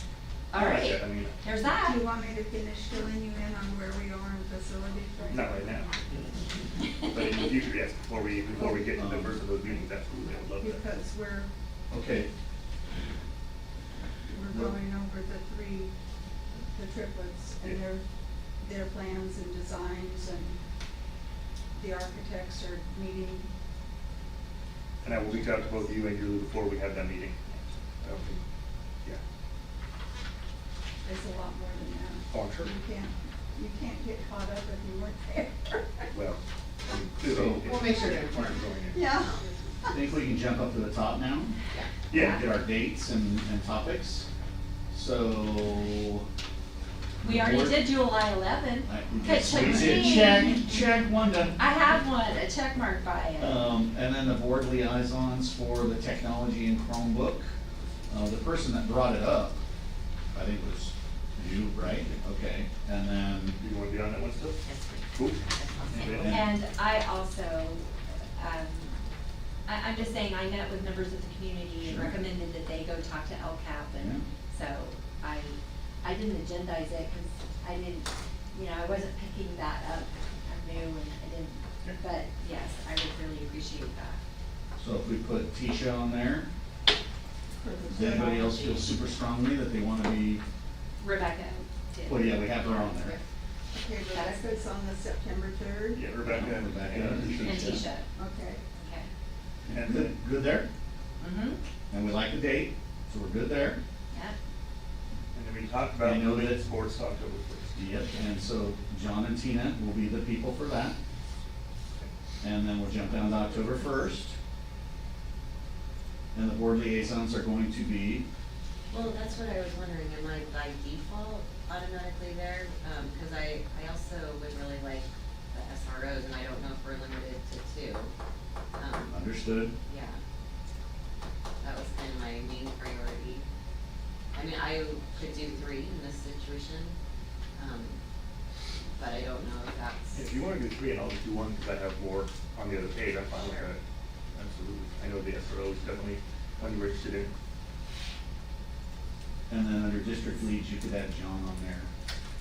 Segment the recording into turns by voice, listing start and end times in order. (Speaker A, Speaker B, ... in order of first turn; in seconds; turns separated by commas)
Speaker A: 0.5-2.0, Speaker B: 0.5-1.4, Speaker C: 1.8-5.8, Speaker B: 5.3-6.0, Speaker B: 7.0-10.9, Speaker C: 8.5-8.8, Speaker D: 8.9-9.4, Speaker C: 10.5-11.5, Speaker D: 11.9-12.3, Speaker C: 14.3-15.9, Speaker D: 14.5-14.8, Speaker C: 16.7-18.0, Speaker C: 18.6-20.6, Speaker C: 21.7-23.5, Speaker B: 25.0-27.4, Speaker C: 25.5-25.9, Speaker B: 28.0-28.4, Speaker C: 31.0-36.1, Speaker B: 32.3-32.7, Speaker B: 36.1-39.2, Speaker D: 37.2-37.9, Speaker C: 38.9-39.3, Speaker D: 39.9-41.5, Speaker B: 42.1-42.4, Speaker A: 42.1-42.4, Speaker D: 42.1-44.3, Speaker D: 44.9-46.3, Speaker D: 47.2-47.9, Speaker A: 47.2-50.7, Speaker D: 48.8-51.7, Speaker A: 51.6-53.8, Speaker D: 53.4-57.5, Speaker D: 58.1-59.6, Speaker D: 60.3-63.6, Speaker B: 63.6-64.6, Speaker E: 64.6-66.3, Speaker B: 65.1-66.4, Speaker D: 66.1-66.5, Speaker A: 66.3-69.0, Speaker A: 69.7-84.2, Speaker D: 71.8-72.2, Speaker D: 73.9-74.2, Speaker D: 84.8-86.5, Speaker C: 87.5-88.7, Speaker D: 87.9-90.4, Speaker A: 88.0-88.9, Speaker A: 91.0-93.2, Speaker D: 92.0-93.2, Speaker C: 93.7-96.1, Speaker A: 94.1-94.4, Speaker B: 95.9-97.8, Speaker D: 96.2-97.9, Speaker A: 97.4-98.1, Speaker C: 98.2-98.6, Speaker A: 98.7-99.1, Speaker D: 99.7-100.7, Speaker B: 99.7-100.1, Speaker A: 101.2-101.6, Speaker D: 101.9-103.8, Speaker A: 104.1-104.3, Speaker B: 105.3-108.0, Speaker D: 106.0-106.7, Speaker D: 107.8-111.0, Speaker D: 112.4-114.3, Speaker D: 116.3-118.2, Speaker E: 118.9-128.1, Speaker E: 128.8-129.3, Speaker D: 129.1-129.7, Speaker E: 129.8-130.2, Speaker E: 131.6-133.4, Speaker E: 134.3-136.9, Speaker E: 137.6-138.0, Speaker E: 138.9-140.3, Speaker B: 140.1-143.8, Speaker E: 143.3-143.7, Speaker B: 144.3-147.3, Speaker D: 149.5-151.9